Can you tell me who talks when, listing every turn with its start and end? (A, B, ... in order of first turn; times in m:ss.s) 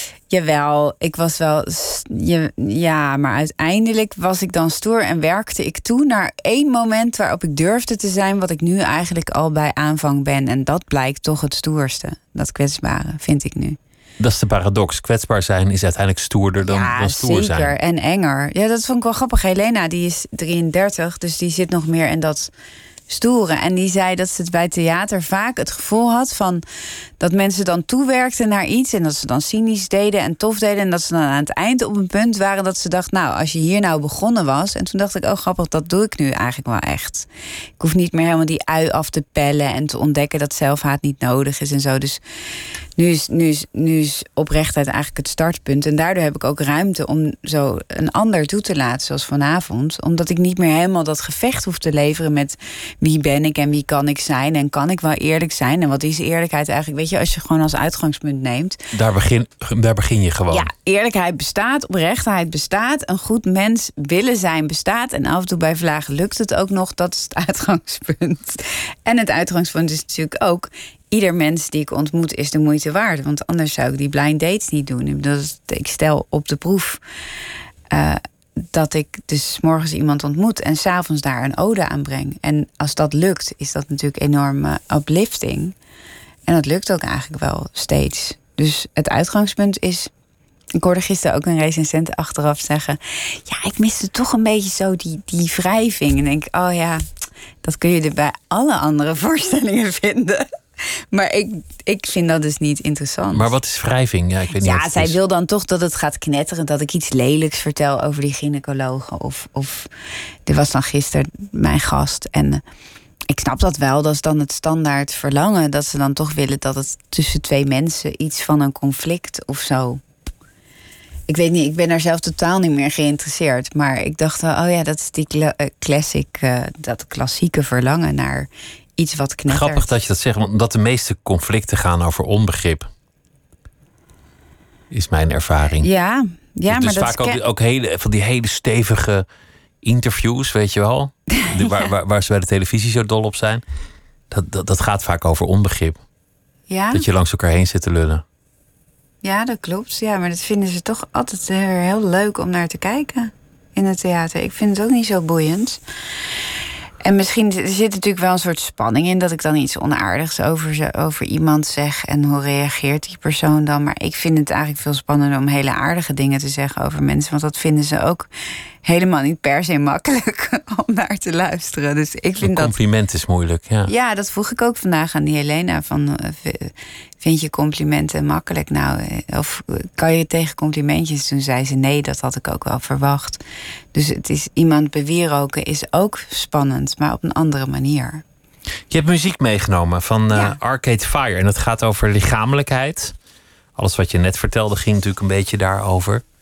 0:00.3-0:13.8 A
0:14.2-0:17.7 B
0:16.6-0:22.5 A
0:23.1-0:26.6 A
0:27.2-0:37.3 A
0:37.8-0:42.2 A
0:43.0-0:58.8 A
0:58.9-1:00.7 B
1:00.5-1:17.0 A
1:17.9-1:25.7 A
1:26.5-1:30.1 A
1:30.8-1:37.0 A
1:37.6-1:43.5 A
1:43.3-1:45.2 B
1:44.5-1:49.9 A
1:50.4-1:52.6 A
1:53.3-2:00.0 A
2:01.3-2:09.8 A
2:09.5-2:12.9 B
2:14.9-2:15.9 B
2:15.8-2:17.4 A
2:16.7-2:19.2 B
2:19.8-2:23.6 B
2:21.4-2:21.9 A
2:24.3-2:26.0 B
2:26.7-2:27.0 A
2:26.9-2:28.2 B
2:29.2-2:35.8 A
2:37.0-2:48.3 A
2:48.8-2:52.7 A
2:52.4-2:53.9 B
2:53.9-3:03.4 A
3:03.9-3:08.2 A
3:08.9-3:13.1 B
3:13.8-3:16.2 B